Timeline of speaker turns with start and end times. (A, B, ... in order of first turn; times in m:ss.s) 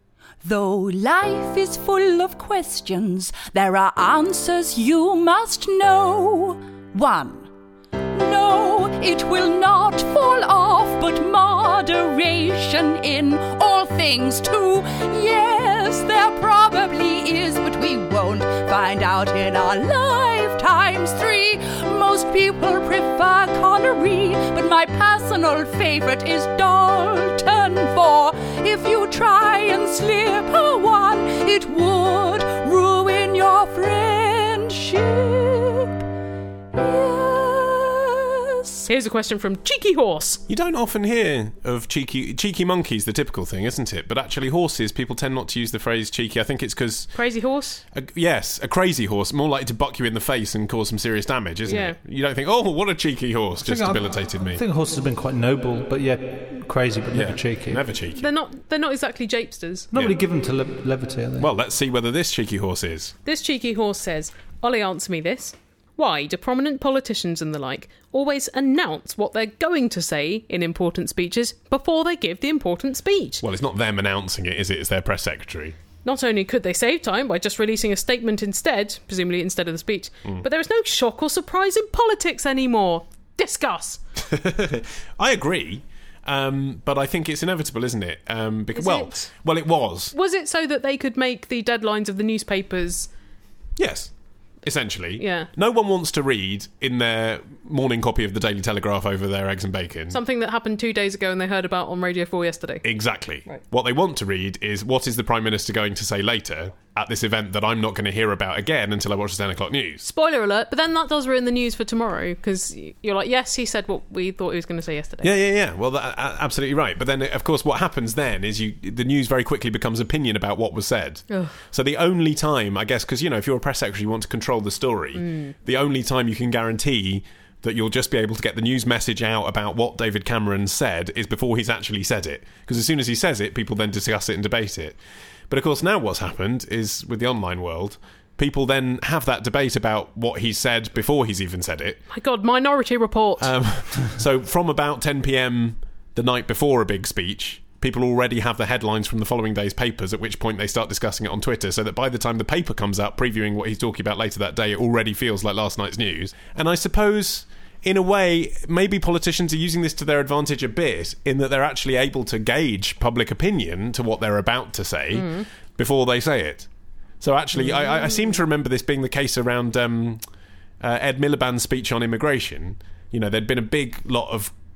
0:00.4-0:07.5 A
0:08.1-0:36.0 A
0:36.8-0:38.9 A
0:38.9-0:40.4 B
0:40.5-0:47.1 C
0:47.1-0:47.8 B
0:47.9-0:54.6 C
0:51.7-0:52.0 B
0:53.6-0:57.8 D
0:57.1-0:58.3 C
0:58.2-0:59.9 B
0:59.9-1:01.5 D
1:01.4-1:03.1 C
1:03.2-1:13.4 B
1:13.4-1:15.8 C
1:16.0-1:24.0 B
1:24.2-1:30.1 C
1:28.7-1:29.3 B
1:30.1-1:33.1 B
1:33.8-1:34.1 C
1:34.6-1:40.2 C
1:35.2-1:35.5 B
1:40.1-1:42.8 B
1:42.8-1:50.1 C
1:50.0-1:55.3 B
1:55.2-2:15.0 C
2:05.2-2:05.6 B
2:15.5-2:22.0 C
2:22.1-2:23.5 B
2:23.4-2:46.7 C
2:45.1-2:45.5 B
2:47.2-2:50.2 C
2:47.6-2:48.3 B
2:50.8-2:54.5 C